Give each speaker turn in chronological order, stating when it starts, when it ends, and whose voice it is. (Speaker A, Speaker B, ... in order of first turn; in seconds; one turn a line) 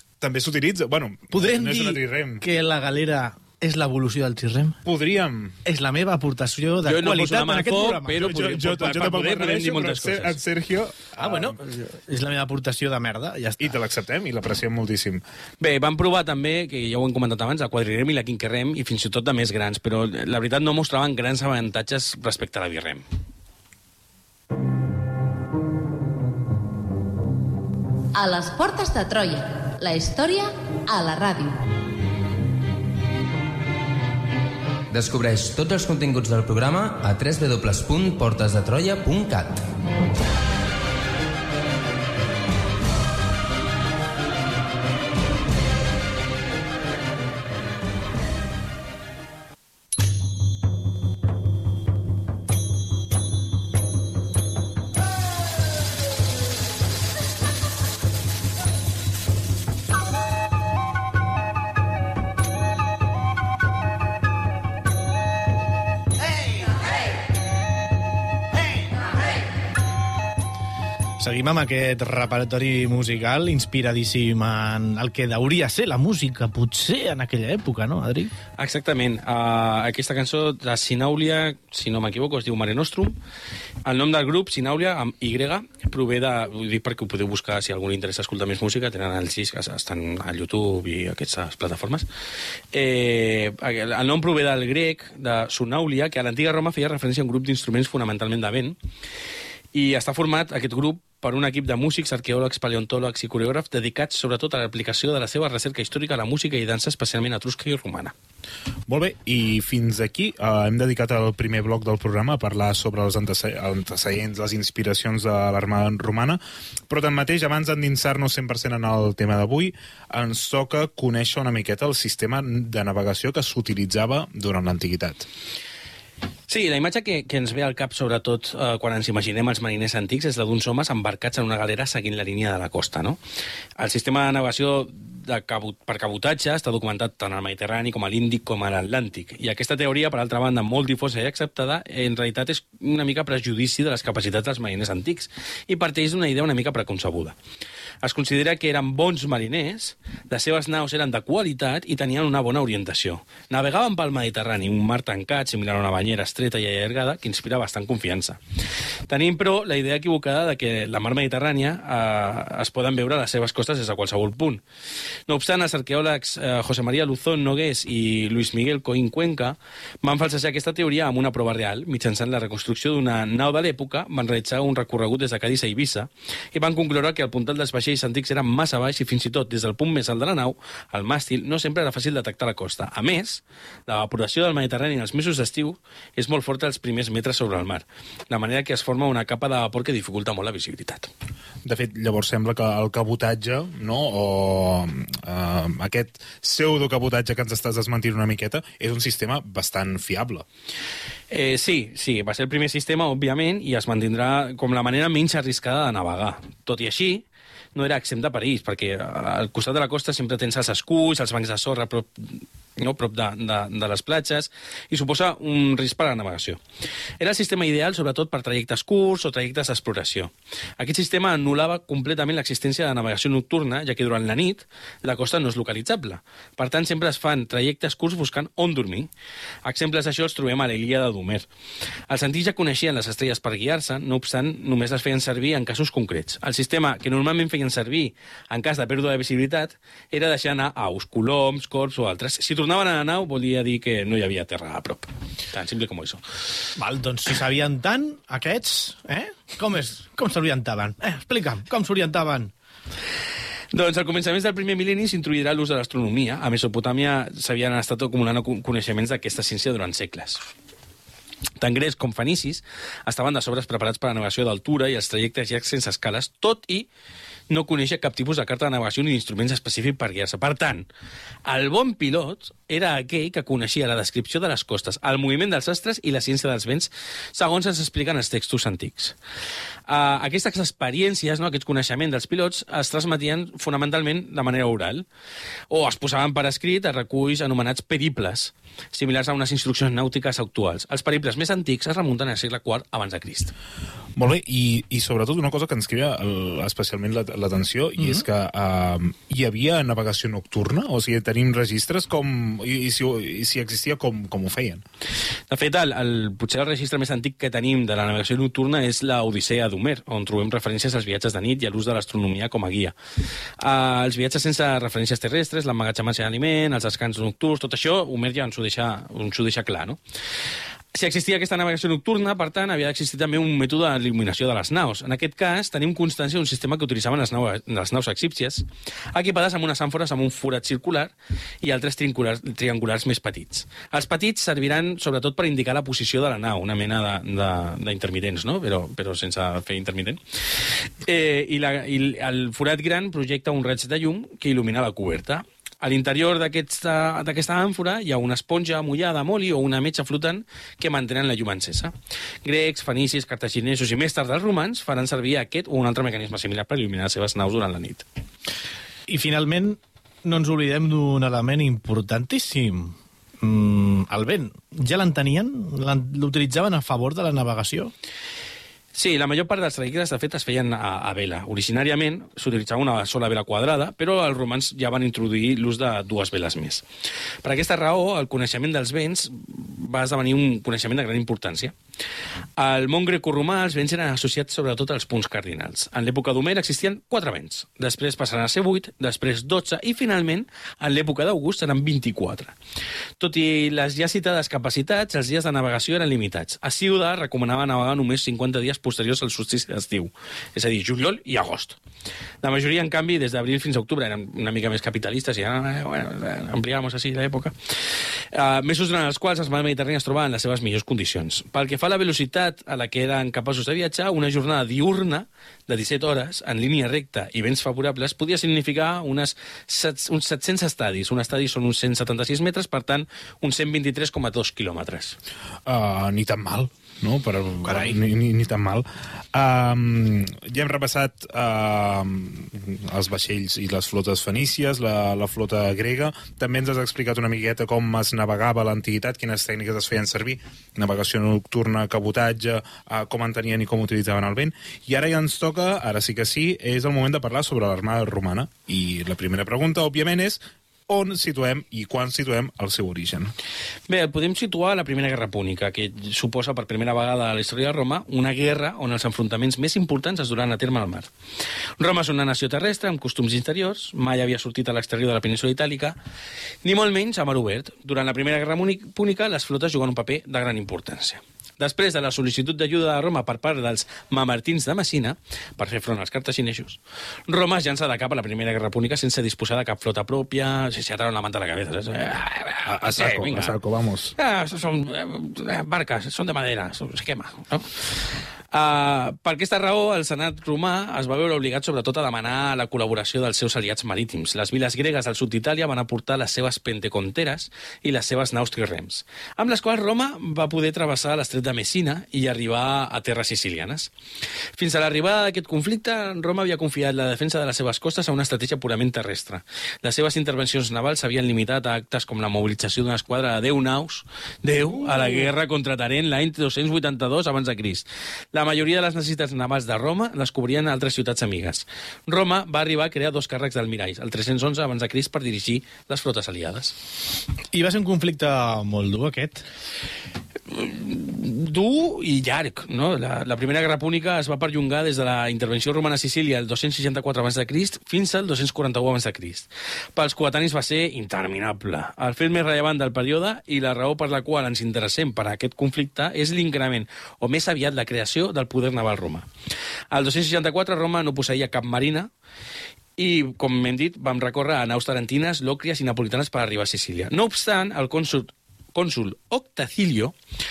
Speaker A: 0.2-2.4
Speaker B: 1.3-4.8
Speaker A: 4.8-5.6
Speaker B: 5.7-8.3
Speaker C: 6.8-10.4
Speaker A: 8.1-11.6
Speaker B: 11.1-13.8
Speaker A: 13.6-15.2
Speaker C: 15.6-23.1
Speaker D: 28.1-31.6
Speaker E: 34.9-39.7
Speaker B: 71.2-78.3
Speaker C: 78.6-83.2
Speaker C: 83.8-92.1
Speaker C: 92.7-98.8
Speaker C: 99.7-108.1
Speaker A: 108.9-125.3
Speaker C: 126.5-133.2
Speaker C: 133.8-147.4
Speaker C: 148.0-158.4
Speaker C: 159.1-164.6
Speaker C: 165.3-191.1
Speaker A: 191.6-200.4
Speaker C: 201.3-216.6
Speaker C: 217.2-229.1
Speaker C: 229.7-231.5
Speaker C: 232.1-246.2
Speaker B: 246.8-252.5
Speaker C: 253.7-260.4
Speaker C: 261.6-266.9
Speaker C: 267.5-270.9
Speaker C: 271.5-279.2
Speaker C: 279.9-285.1
Speaker C: 285.7-293.5
Speaker A: 294.2-304.8
Speaker B: 298.0-298.2
Speaker C: 305.5-313.0
Speaker C: 313.6-320.0
Speaker C: 320.9-340.2
Speaker C: 341.0-351.9
Speaker C: 352.4-358.1
Speaker B: 359.1-367.9
Speaker C: 368.9-376.8
Speaker C: 377.4-381.7
Speaker C: 382.6-392.5
Speaker C: 393.2-401.8
Speaker C: 402.4-407.5
Speaker C: 408.3-425.2
Speaker A: 425.7-453.3
Speaker C: 427.6-428.0
Speaker C: 453.9-461.1
Speaker C: 461.8-466.0
Speaker C: 466.6-483.6
Speaker A: 482.7-484.1
Speaker C: 484.2-487.8
Speaker C: 488.5-503.9
Speaker C: 504.6-526.8
Speaker B: 527.5-529.4
Speaker C: 530.5-549.3
Speaker C: 549.9-552.1
Speaker C: 553.0-560.1